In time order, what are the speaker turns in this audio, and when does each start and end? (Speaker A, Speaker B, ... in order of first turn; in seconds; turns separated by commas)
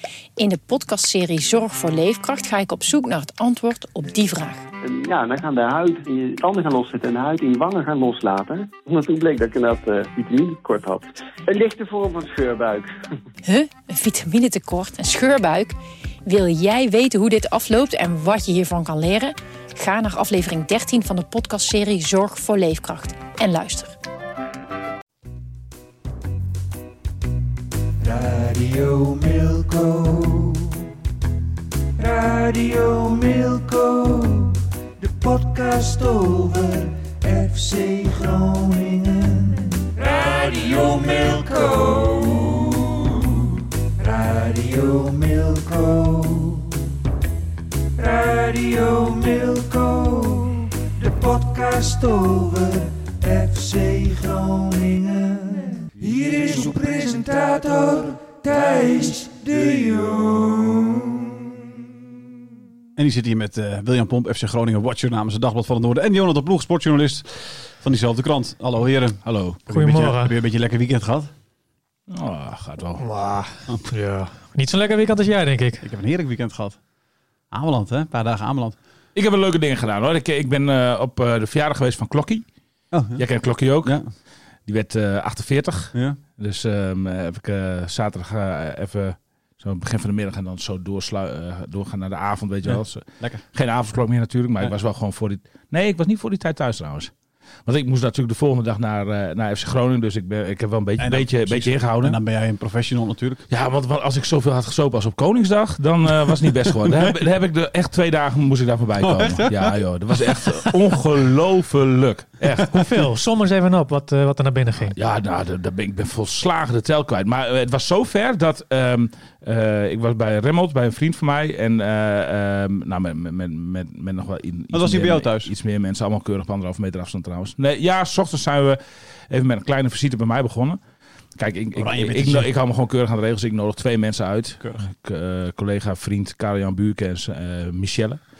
Speaker A: 0.4-4.6, Speaker B: 4.8-12.9, Speaker A: 13.4-23.9, Speaker C: 28.0-30.9, Speaker C: 32.0-43.5, Speaker C: 44.0-46.7, Speaker C: 48.0-61.2, Speaker D: 63.0-71.3, Speaker E: 69.2-69.6, Speaker F: 69.7-70.3, Speaker E: 72.1-73.2, Speaker F: 73.0-75.8, Speaker D: 75.8-76.8, Speaker D: 77.5-78.8, Speaker E: 79.2-82.5, Speaker D: 82.9-83.2, Speaker E: 83.2-84.0, Speaker D: 83.8-84.1, Speaker E: 84.7-97.1, Speaker D: 85.9-86.2, Speaker D: 92.7-93.4, Speaker E: 97.7-102.2, Speaker D: 101.0-103.5, Speaker E: 103.5-112.7, Speaker D: 109.0-110.7, Speaker F: 112.6-115.0, Speaker E: 114.9-128.8, Speaker D: 124.7-125.5, Speaker E: 129.3-130.8, Speaker E: 131.4-138.2, Speaker D: 131.8-132.5, Speaker D: 134.6-134.9